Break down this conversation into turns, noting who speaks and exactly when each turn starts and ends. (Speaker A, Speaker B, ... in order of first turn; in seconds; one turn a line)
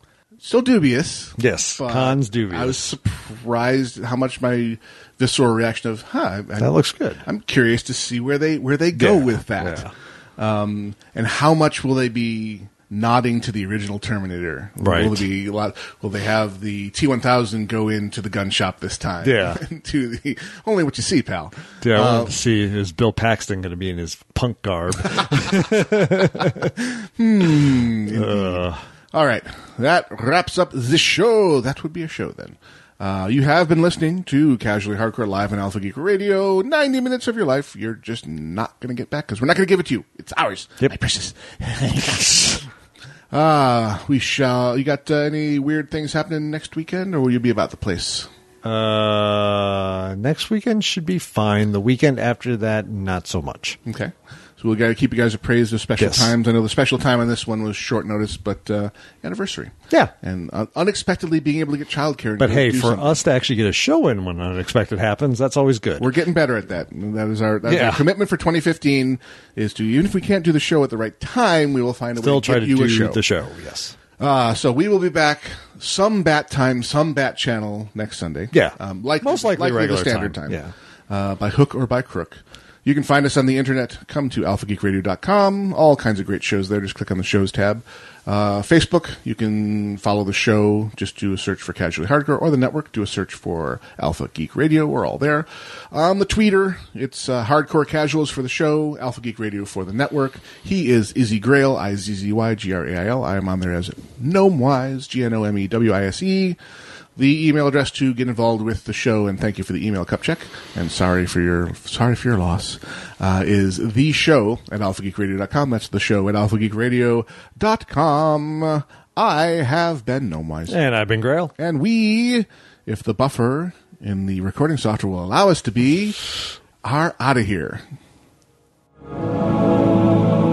Speaker A: 0.4-22.4
Speaker B: 1.4-2.8
Speaker B: 6.6-7.2
Speaker B: 8.9-9.9
Speaker B: 14.8-15.2
Speaker B: 19.2-19.6
Speaker B: 21.8-26.7
Speaker A: 25.1-25.5
Speaker A: 26.4-42.6
Speaker B: 28.1-28.8
Speaker B: 42.0-42.6
Speaker A: 43.3-48.3
Speaker B: 48.6-53.8
Speaker A: 53.9-63.2
Speaker B: 56.0-56.3
Speaker B: 62.4-66.1
Speaker A: 66.0-73.2
Speaker B: 67.7-68.0
Speaker B: 72.2-74.0
Speaker A: 74.2-106.6
Speaker B: 78.5-80.7
Speaker A: 107.2-120.8
Speaker B: 120.7-121.5
Speaker A: 121.6-126.2
Speaker A: 126.8-127.8